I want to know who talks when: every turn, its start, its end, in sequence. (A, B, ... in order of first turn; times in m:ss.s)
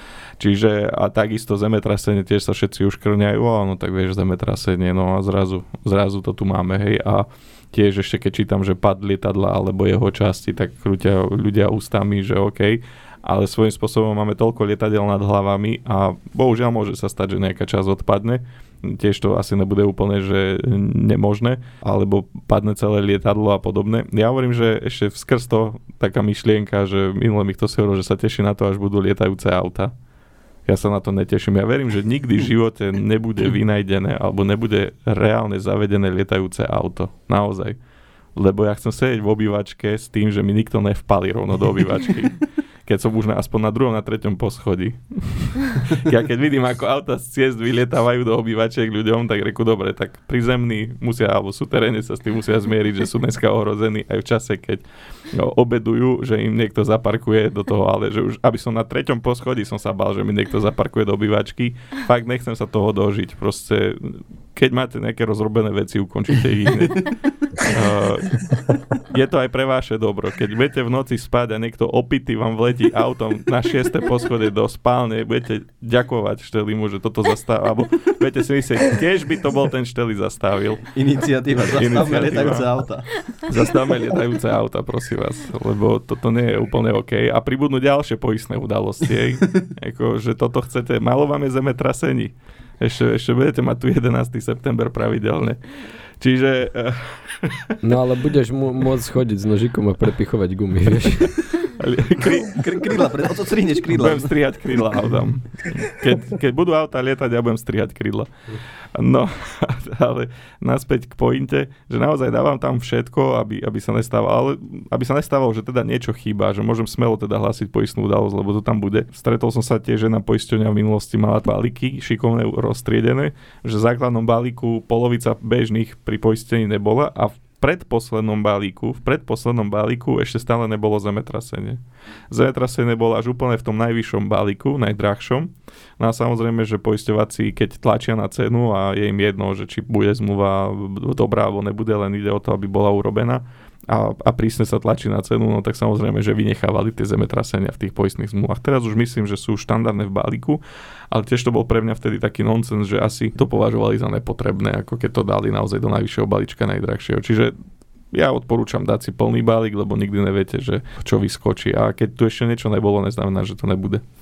0:00.4-0:29.9 A
0:30.7-0:37.8 A
0:38.4-1:20.9 A
1:20.9-1:23.3 B
1:21.6-1:35.6 A
1:36.2-1:37.8 A
1:37.8-1:41.4 C
1:41.6-1:42.8 A
1:42.5-1:44.4 B
1:43.9-1:48.3 A
1:49.0-2:37.6 A
2:38.1-2:44.0 A